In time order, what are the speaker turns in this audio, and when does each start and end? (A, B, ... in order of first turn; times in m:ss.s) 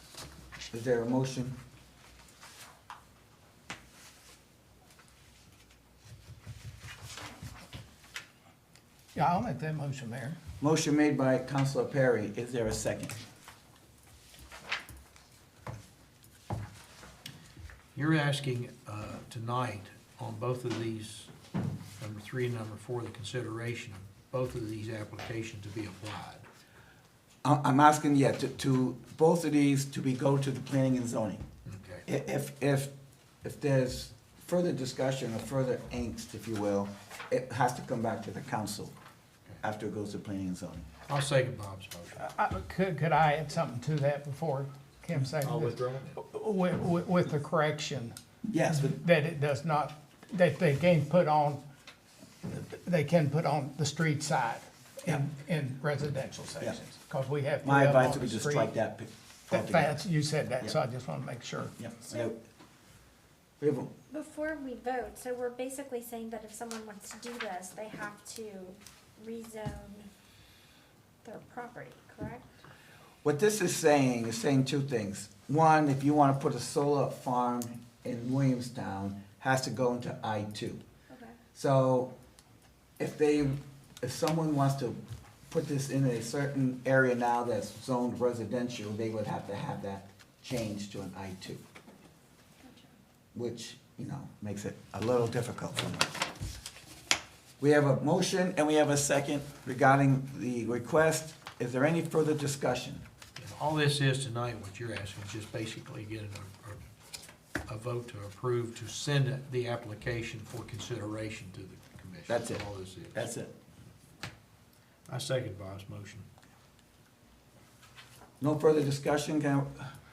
0:00.7-0:01.6 A
0:09.1-0:10.4 B
0:10.6-0:13.2 A
0:17.9-0:21.3 C
0:22.0-0:26.5 C
0:27.4-0:31.4 A
0:31.6-0:32.0 C
0:32.0-0:32.9 A
0:33.4-0:38.9 A
0:39.6-0:40.8 A
0:41.1-0:42.2 C
0:42.2-0:48.1 B
0:45.4-0:46.2 C
0:48.5-0:48.9 A
0:48.7-0:51.6 B
0:52.4-0:58.7 B
0:57.6-1:00.0 A
0:59.5-1:01.7 B
1:01.8-1:02.4 A
1:03.6-1:03.9 A
1:04.1-1:10.1 D
1:11.2-1:12.5 D
1:13.2-1:20.8 A
1:21.1-1:21.4 D
1:21.5-1:22.1 A
1:23.0-1:25.0 A
1:25.5-1:31.6 A
1:32.6-1:32.9 D
1:33.3-1:36.2 A
1:37.6-1:43.0 A
1:43.4-1:46.8 C
1:47.6-1:53.3 C
1:52.3-1:53.5 A
1:55.1-1:56.3 C
1:58.4-1:59.9 A